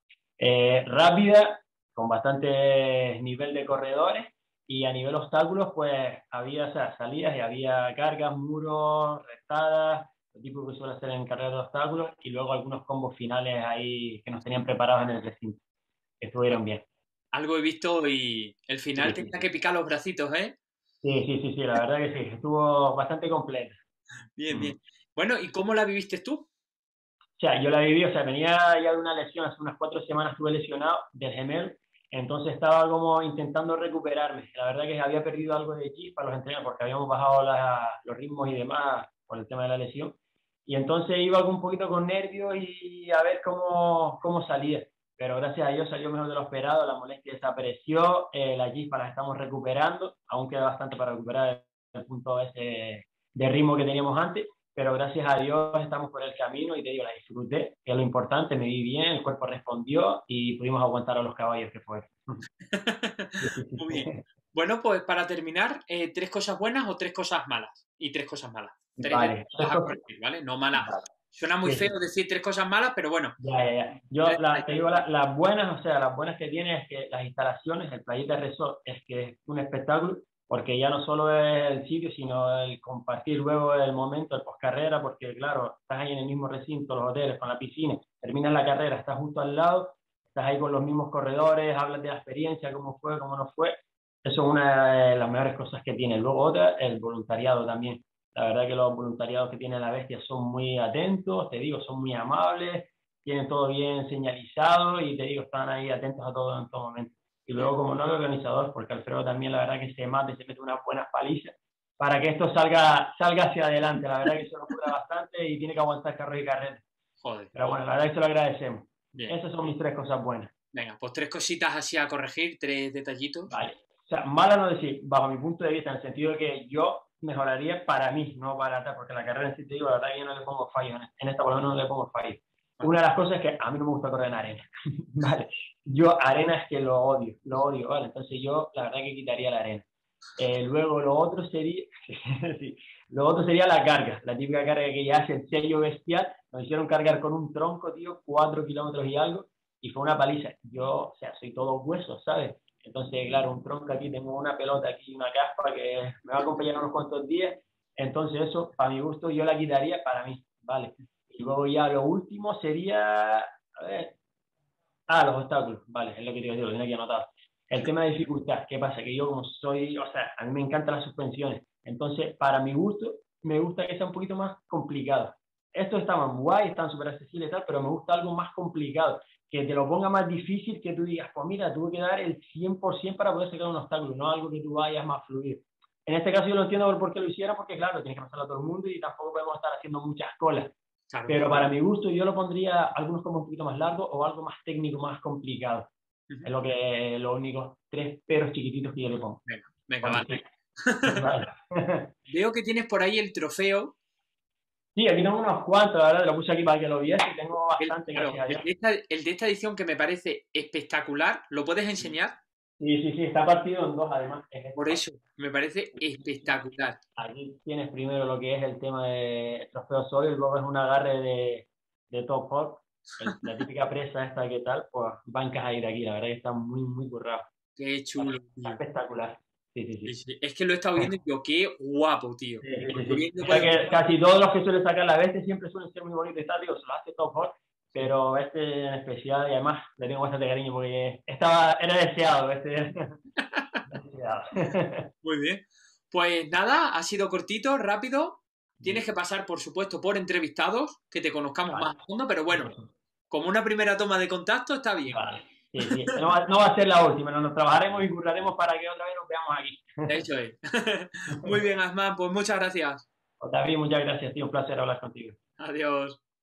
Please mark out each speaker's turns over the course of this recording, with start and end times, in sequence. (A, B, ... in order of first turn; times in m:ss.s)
0:00.4-0:15.6 A
0:16.2-0:16.8 A
0:17.3-0:20.6 B
0:19.0-0:19.4 A
0:21.0-0:23.8 A
0:24.4-0:26.5 B
0:24.5-0:24.8 A
0:27.4-1:02.4 A
1:02.7-1:13.4 B
1:03.4-1:04.2 A
1:09.0-1:10.0 A
1:10.7-1:11.0 A
1:11.6-1:11.9 A
1:13.4-1:56.8 A
1:14.2-1:14.8 B
1:57.2-1:57.5 B
1:57.5-2:00.5 A
2:00.7-2:03.5 B
2:03.5-2:19.8 A
2:20.4-2:44.2 A
2:45.1-3:10.7 A
3:11.1-3:11.7 B
3:11.3-3:15.9 A
3:16.4-3:19.4 A
3:19.4-3:21.2 B
3:20.0-3:20.4 A
3:21.0-3:22.1 A
3:22.3-3:23.9 B
3:25.0-3:28.6 A
3:27.8-3:32.4 B
3:32.8-3:35.0 A
3:34.8-3:37.0 B
3:37.2-3:47.5 A
3:47.8-3:48.8 B
3:48.2-3:50.1 A
3:50.0-3:54.0 B
3:52.6-4:03.1 A
4:03.5-4:03.8 B
4:03.9-4:05.1 A
4:05.2-4:12.7 B
4:08.8-4:09.0 A
4:11.7-4:11.9 A
4:12.5-4:12.9 A
4:13.3-4:15.2 B
4:15.1-4:20.2 A
4:20.1-4:23.0 B
4:23.4-4:25.4 A
4:25.6-4:26.2 B